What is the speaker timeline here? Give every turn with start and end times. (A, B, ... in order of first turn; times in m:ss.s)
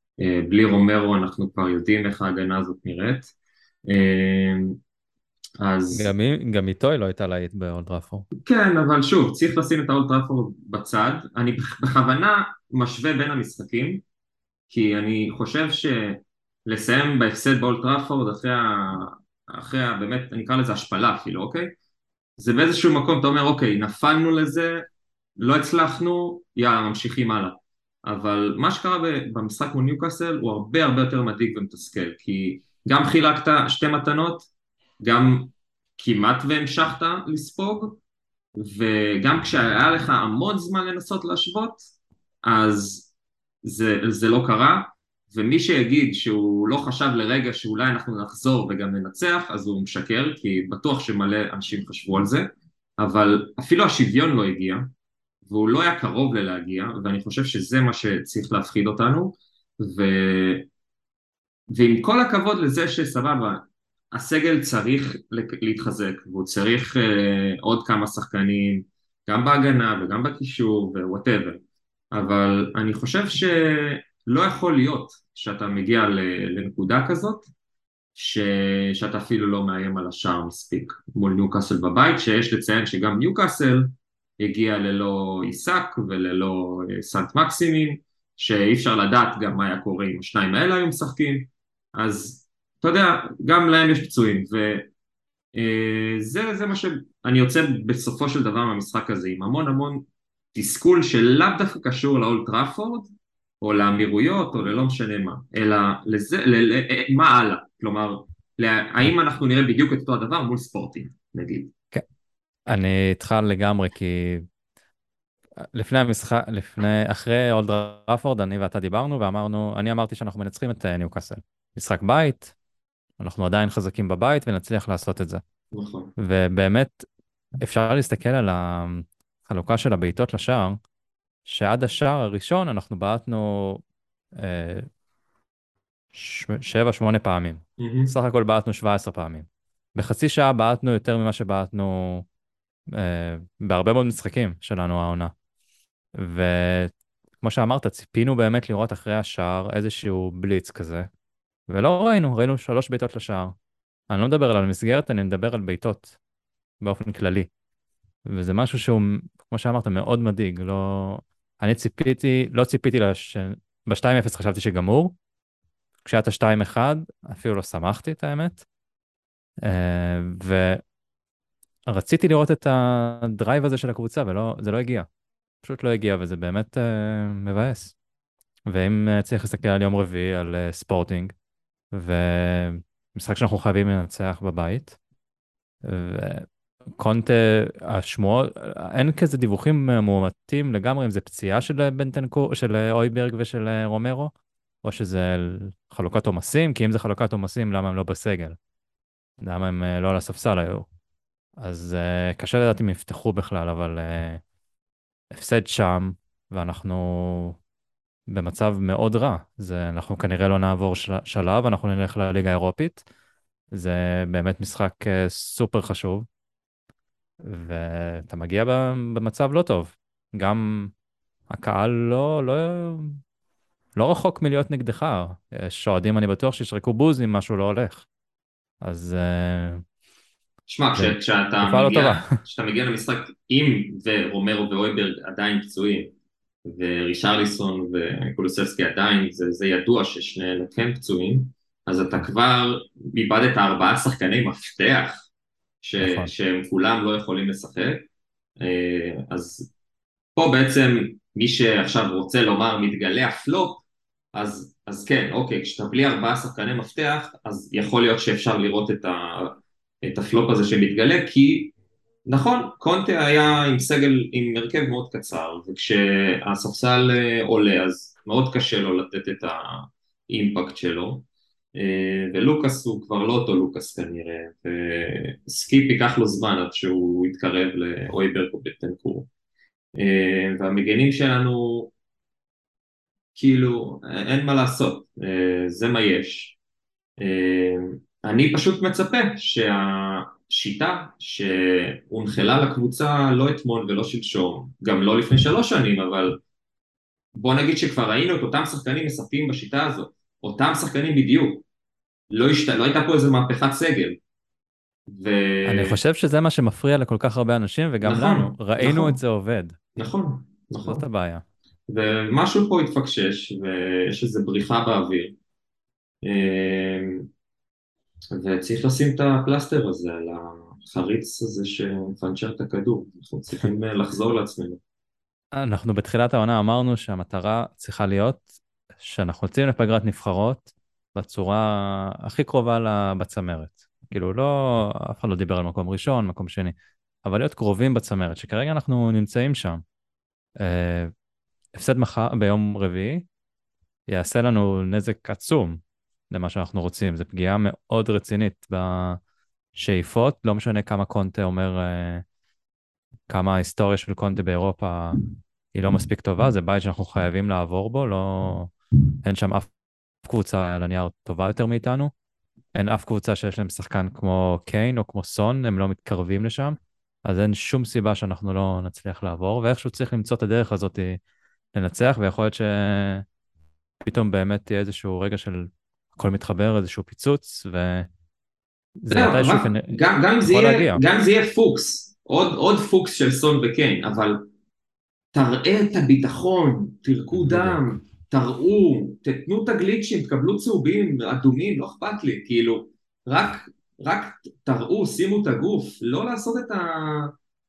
0:00.2-0:03.3 A
0:03.9-0:04.8 A
0:05.6-0:06.1 A
0:05.9-0:08.2 B
0:08.4-0:14.0 A
0:14.7-0:21.8 A
0:22.4-0:24.9 A
0:25.4-0:34.5 A
0:35.0-0:38.0 A
0:38.6-0:41.8 A
0:42.4-0:43.1 A
0:43.6-0:54.9 A
0:55.4-1:00.7 A
1:01.7-1:11.6 A
1:12.1-1:17.5 A
1:18.2-1:34.9 A
1:35.6-1:43.1 A
1:43.6-1:51.7 A
1:52.7-1:54.4 B
1:55.6-2:02.6 B
2:03.2-2:05.4 B
2:05.7-2:06.1 A
2:06.2-2:07.1 B
2:07.6-2:10.8 B
2:11.5-2:13.8 B
2:14.4-2:14.9 B
2:16.1-2:22.3 B
2:17.8-2:18.1 A
2:22.9-2:25.3 B
2:26.2-2:31.1 B
2:31.7-2:33.6 B
2:34.1-2:36.1 B
2:36.8-2:37.5 B
2:38.3-2:45.2 B
2:46.0-2:48.6 B
2:49.6-2:50.8 B
2:51.9-2:55.1 B
2:55.6-2:57.9 B
2:58.7-3:01.3 B
3:01.9-3:05.0 B
3:05.8-3:14.3 B
3:14.8-3:18.6 B
3:19.4-3:20.9 B
3:21.6-3:24.4 B
3:25.3-3:27.6 B
3:28.3-3:33.0 B
3:33.7-3:36.3 B
3:37.4-3:40.9 B
3:41.5-3:43.2 B
3:44.0-3:48.1 B
3:48.8-3:49.8 B
3:50.7-3:56.1 A
3:51.0-3:52.3 B
3:56.7-4:05.3 A
4:05.8-4:08.1 A
4:06.0-4:06.3 B
4:08.6-4:09.7 A
4:10.4-4:13.8 A
4:14.4-4:21.7 A
4:22.3-4:31.2 A
4:31.8-4:39.3 A
4:40.0-4:41.9 A
4:43.4-4:46.6 A
4:47.2-4:56.4 A
4:57.4-5:01.6 A
5:02.3-5:04.2 A
5:05.1-5:06.0 A
5:05.7-5:09.8 B
5:08.0-5:09.2 A
5:10.0-5:11.0 A
5:10.8-5:11.4 B
5:11.9-5:15.4 A
5:16.2-5:17.3 A
5:18.3-5:24.8 A
5:25.6-5:28.5 B
5:29.0-5:39.8 B
5:40.6-5:41.1 B
5:41.8-5:43.2 B
5:44.1-5:49.2 B
5:49.8-5:52.2 B
5:53.3-5:55.2 B
5:55.7-5:58.7 B
5:59.2-5:59.7 B
6:00.2-6:02.1 B
6:02.8-6:11.2 B
6:11.7-6:13.2 B
6:14.0-6:18.1 B
6:19.0-6:19.9 B
6:19.1-6:24.5 A
6:20.5-6:21.0 B
6:25.3-6:37.3 A
6:27.3-6:27.8 B